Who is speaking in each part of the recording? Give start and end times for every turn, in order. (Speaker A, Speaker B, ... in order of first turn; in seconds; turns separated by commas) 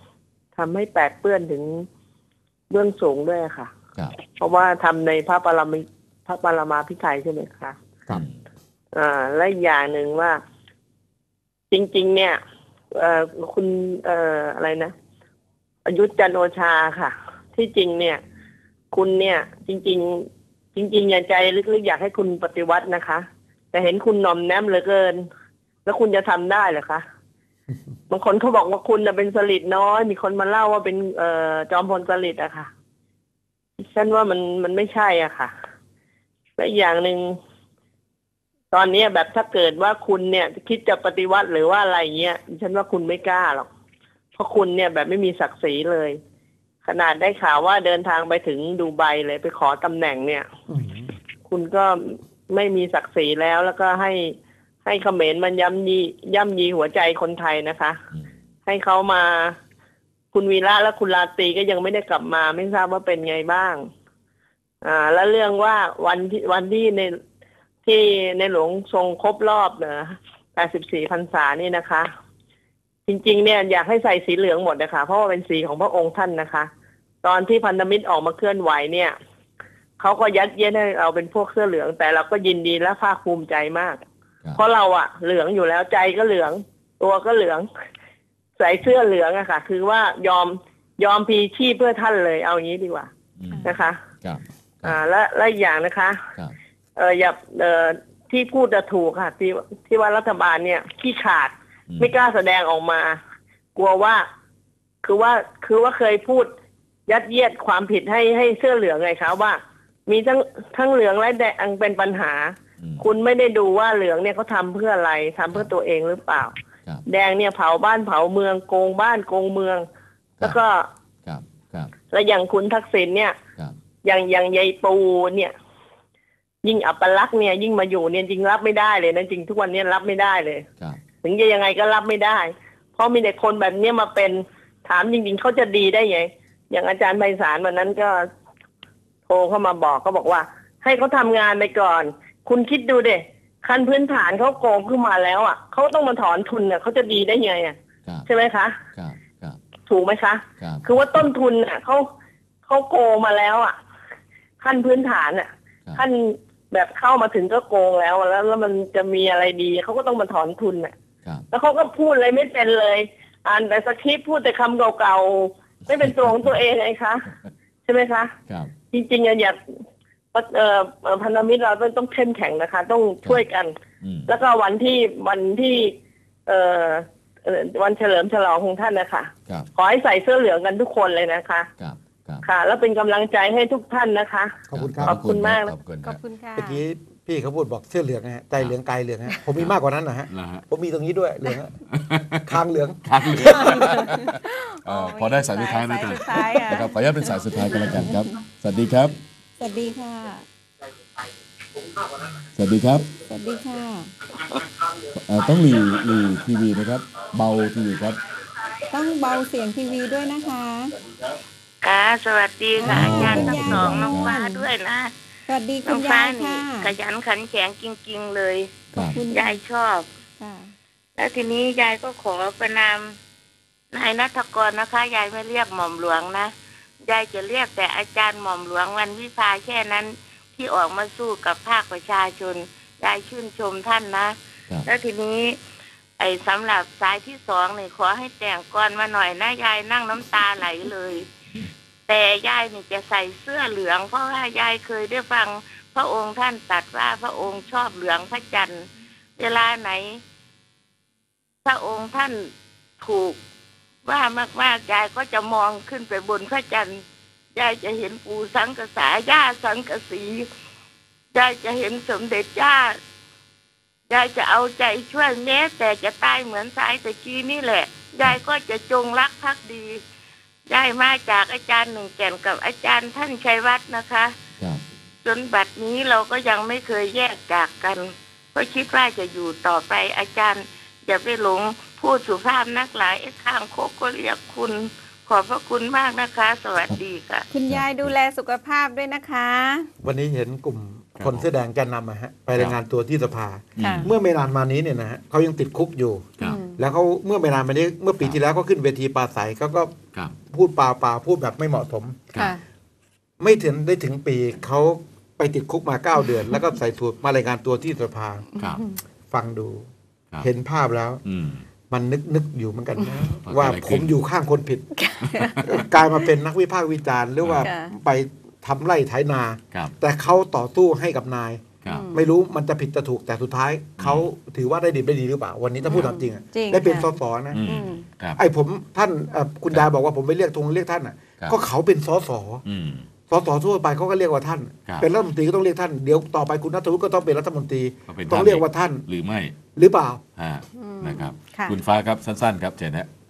Speaker A: 0.6-1.9, Speaker A: 2.7-7.8, Speaker B: 8.1-8.4, Speaker A: 8.9-10.4, Speaker A: 11.7-12.4, Speaker A: 12.9-14.9, Speaker A: 15.9-18.2, Speaker A: 18.9-25.2, Speaker A: 25.9-27.0, Speaker A: 28.1-32.7, Speaker A: 33.8-35.5, Speaker A: 36.6-37.4, Speaker A: 38.7-43.7, Speaker A: 44.4-46.2, Speaker A: 46.8-50.5, Speaker C: 50.7-51.1, Speaker A: 51.5-58.0, Speaker A: 58.7-59.6, Speaker A: 60.3-63.9, Speaker A: 64.8-67.2, Speaker A: 67.9-72.1, Speaker A: 73.1-76.7, Speaker A: 77.2-79.2, Speaker A: 80.0-84.0, Speaker A: 84.6-87.7, Speaker A: 88.6-93.1, Speaker B: 93.4-95.0, Speaker A: 93.6-94.0, Speaker A: 94.8-96.2, Speaker A: 97.0-103.2, Speaker A: 103.8-104.2, Speaker A: 105.0-106.5, Speaker A: 107.1-116.5, Speaker B: 112.8-113.0, Speaker A: 117.1-119.8, Speaker A: 120.4-120.9, Speaker B: 121.2-121.9, Speaker A: 122.1-123.3, Speaker A: 124.0-125.5, Speaker A: 126.6-130.7, Speaker A: 131.2-138.2, Speaker A: 139.3-147.8, Speaker A: 148.3-148.8, Speaker B: 148.9-149.6, Speaker A: 149.9-152.1, Speaker B: 150.6-151.0, Speaker A: 152.7-153.7, Speaker A: 154.6-160.9, Speaker A: 161.5-167.3, Speaker B: 165.9-166.5, Speaker A: 167.9-168.3, Speaker B: 168.5-168.7, Speaker A: 168.9-169.6, Speaker A: 170.3-173.7, Speaker B: 174.0-174.3, Speaker A: 174.3-175.9, Speaker A: 176.5-181.7, Speaker B: 181.8-182.5, Speaker A: 182.4-185.7, Speaker C: 184.7-185.2, Speaker B: 184.7-186.2, Speaker D: 186.0-186.8, Speaker C: 186.6-191.8, Speaker B: 190.3-190.6, Speaker B: 191.9-192.5, Speaker C: 192.5-193.8, Speaker B: 193.1-199.2, Speaker D: 193.4-198.3, Speaker D: 199.6-200.5, Speaker B: 202.4-203.2, Speaker D: 203.2-204.1, Speaker B: 205.0-208.2, Speaker D: 208.9-211.0, Speaker E: 211.8-215.1, Speaker D: 212.8-214.7, Speaker B: 212.8-214.4, Speaker D: 215.5-216.9, Speaker E: 215.8-220.1, Speaker B: 218.9-219.2, Speaker D: 218.9-219.6, Speaker D: 220.4-220.7, Speaker E: 221.2-223.2, Speaker E: 223.9-226.5, Speaker E: 227.0-235.6, Speaker E: 236.2-241.3, Speaker E: 242.1-248.9, Speaker E: 249.4-250.2, Speaker E: 251.7-253.4, Speaker E: 254.1-257.0, Speaker E: 257.6-260.5, Speaker E: 261.3-263.0, Speaker E: 264.1-270.0, Speaker E: 270.7-274.3, Speaker E: 275.2-287.5, Speaker D: 287.5-289.9, Speaker B: 287.7-288.1, Speaker C: 290.0-302.3, Speaker B: 291.2-291.5, Speaker B: 293.8-294.1, Speaker D: 293.8-294.1, Speaker D: 296.4-296.8, Speaker C: 303.4-308.5, Speaker B: 308.6-308.8, Speaker D: 308.6-309.0, Speaker C: 309.3-309.9, Speaker C: 310.4-311.2, Speaker B: 311.3-311.7, Speaker C: 311.9-315.0, Speaker B: 313.4-314.1, Speaker D: 314.9-315.6, Speaker B: 315.3-315.8, Speaker C: 315.6-327.7, Speaker B: 317.4-317.7, Speaker D: 317.6-318.0, Speaker D: 321.9-322.3, Speaker B: 324.0-324.3, Speaker D: 325.8-328.1, Speaker B: 327.5-328.4, Speaker C: 328.4-332.6, Speaker B: 332.7-333.1, Speaker C: 333.3-339.1, Speaker B: 338.1-339.6, Speaker C: 339.8-340.2, Speaker B: 340.4-343.1, Speaker D: 340.7-341.8